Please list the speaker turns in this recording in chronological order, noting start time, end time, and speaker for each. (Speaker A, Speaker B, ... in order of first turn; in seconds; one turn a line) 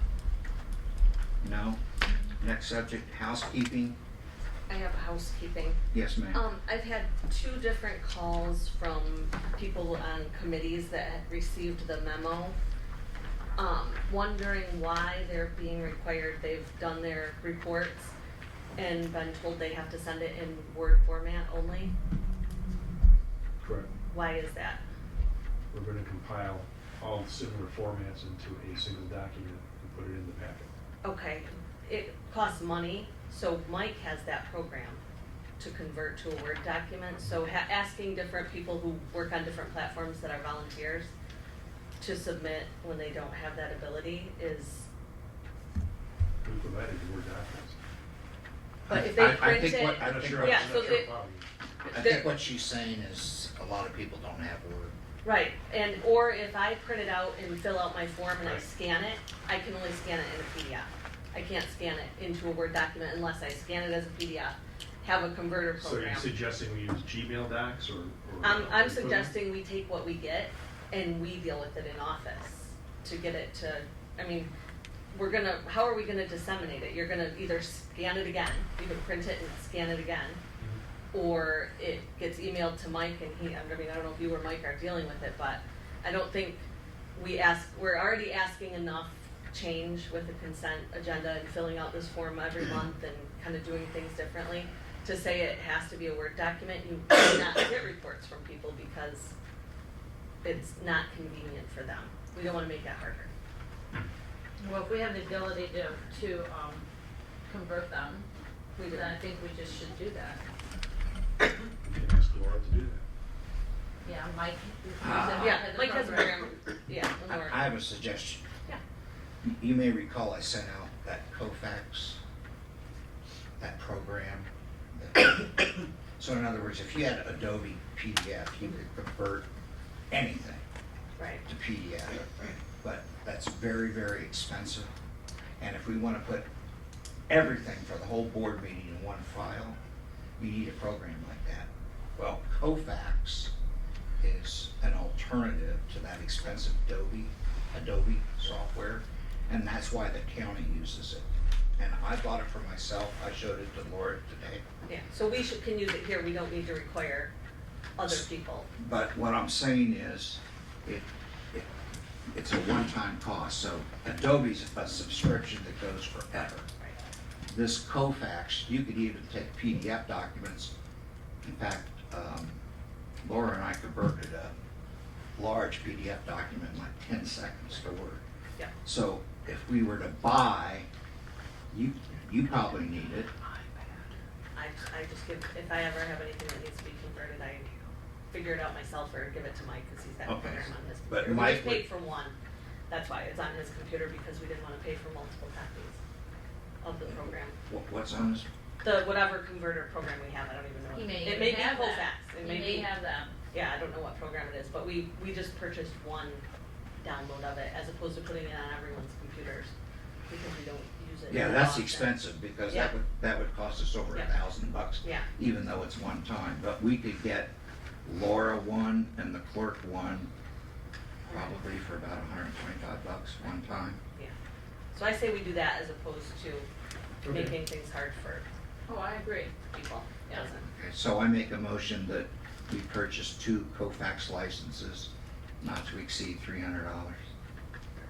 Speaker A: 1.4-1.8
Speaker A: 2.4-4.0
Speaker B: 4.7-5.8
Speaker A: 5.9-6.4
Speaker B: 6.3-12.6
Speaker B: 13.6-18.1
Speaker B: 18.8-21.9
Speaker C: 23.6-23.9
Speaker B: 24.1-24.8
Speaker C: 25.7-30.7
Speaker B: 31.0-35.0
Speaker B: 35.6-41.1
Speaker B: 42.0-44.9
Speaker C: 46.4-47.8
Speaker A: 48.9-50.9
Speaker B: 48.9-51.1
Speaker C: 50.0-51.5
Speaker B: 51.8-52.3
Speaker A: 51.9-54.9
Speaker B: 55.2-66.3
Speaker C: 65.8-69.4
Speaker B: 68.4-74.5
Speaker B: 75.1-80.4
Speaker B: 81.1-86.6
Speaker B: 87.2-99.3
Speaker B: 100.4-103.3
Speaker D: 104.6-106.8
Speaker D: 107.5-108.3
Speaker B: 108.8-109.2
Speaker D: 108.9-110.4
Speaker C: 111.8-113.0
Speaker D: 114.0-116.5
Speaker A: 115.0-115.7
Speaker B: 115.3-117.7
Speaker A: 117.3-118.5
Speaker A: 119.4-122.2
Speaker A: 123.6-129.5
Speaker A: 130.1-130.6
Speaker B: 131.2-131.4
Speaker A: 131.4-134.9
Speaker A: 135.6-136.5
Speaker A: 137.3-139.8
Speaker A: 140.4-143.5
Speaker A: 144.2-151.2
Speaker A: 151.8-154.6
Speaker B: 154.9-157.3
Speaker B: 158.0-158.7
Speaker A: 158.8-161.7
Speaker A: 162.3-166.7
Speaker A: 167.5-170.7
Speaker A: 171.4-172.6
Speaker A: 173.2-174.5
Speaker A: 175.3-178.2
Speaker A: 178.8-180.9
Speaker A: 181.7-183.3
Speaker B: 184.5-192.3
Speaker A: 190.2-191.8
Speaker B: 192.9-196.0
Speaker B: 196.8-197.6
Speaker A: 197.7-198.5
Speaker B: 198.8-202.9
Speaker D: 200.9-203.3
Speaker B: 203.5-206.4
Speaker B: 207.0-209.7
Speaker B: 210.3-212.9
Speaker A: 211.3-217.5
Speaker B: 215.0-215.3
Speaker A: 218.0-220.3
Speaker A: 221.2-224.0
Speaker B: 221.3-221.6
Speaker B: 224.9-226.7
Speaker B: 227.2-228.4
Speaker C: 227.2-227.5
Speaker D: 228.9-229.6
Speaker B: 229.7-230.7
Speaker A: 230.7-237.2